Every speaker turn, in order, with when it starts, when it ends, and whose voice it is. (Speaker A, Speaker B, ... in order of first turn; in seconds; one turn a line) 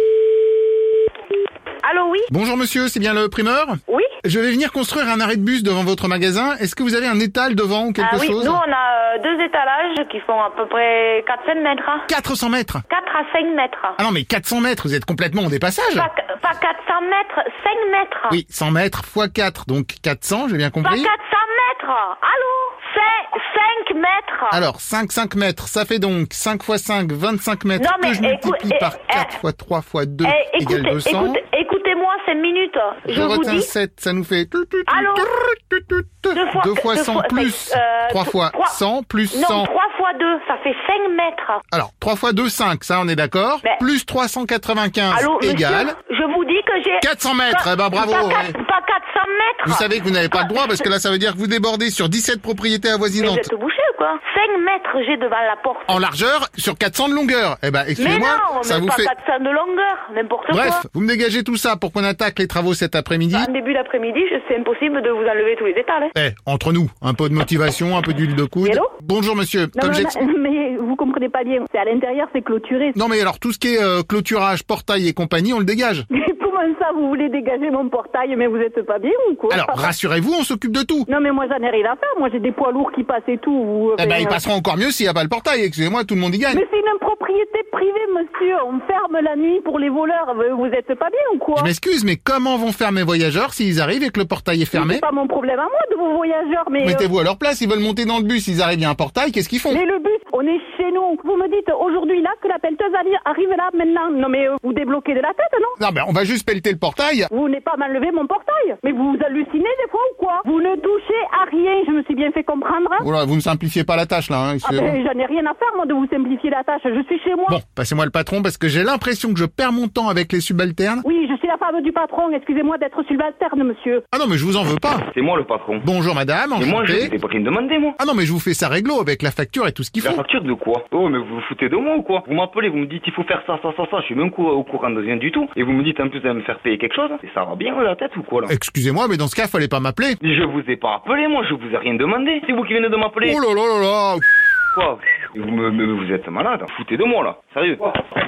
Speaker A: 1.8-2.3
Speaker B: 2.3-8.6
Speaker A: 8.0-12.1
Speaker B: 12.1-12.8
Speaker A: 12.9-14.0
Speaker B: 14.0-16.1
Speaker A: 15.9-18.4
Speaker B: 18.3-21.1
Speaker A: 20.8-24.6
Speaker B: 24.5-31.4
Speaker A: 27.8-29.4
Speaker A: 30.2-33.7
Speaker B: 33.0-39.7
Speaker A: 34.9-35.3
Speaker A: 36.3-38.8
Speaker A: 39.3-41.6
Speaker B: 41.7-46.0
Speaker A: 45.1-50.8
Speaker B: 47.0-48.5
Speaker B: 49.6-53.5
Speaker A: 53.2-56.0
Speaker B: 55.9-59.1
Speaker A: 58.0-60.8
Speaker B: 60.5-63.5
Speaker A: 63.3-66.1
Speaker B: 66.1-70.2
Speaker C: 68.6-68.9
Speaker C: 69.8-73.0
Speaker B: 72.9-76.0
Speaker C: 76.1-79.9
Speaker B: 79.5-81.1
Speaker C: 81.1-84.4
Speaker B: 84.0-86.6
Speaker C: 86.5-91.7
Speaker B: 91.5-95.0
Speaker C: 94.7-97.0
Speaker B: 96.8-99.8
Speaker C: 99.7-105.8
Speaker B: 105.8-107.3
Speaker C: 107.3-113.1
Speaker B: 113.0-115.0
Speaker C: 114.6-117.6
Speaker B: 117.5-121.0
Speaker C: 121.0-124.0
Speaker B: 124.1-125.0
Speaker D: 125.1-125.9
Speaker B: 125.8-127.1
Speaker D: 126.6-128.0
Speaker B: 128.0-130.2
Speaker D: 130.0-138.5
Speaker B: 138.5-140.2
Speaker D: 140.2-143.4
Speaker B: 143.2-144.2
Speaker D: 144.7-148.0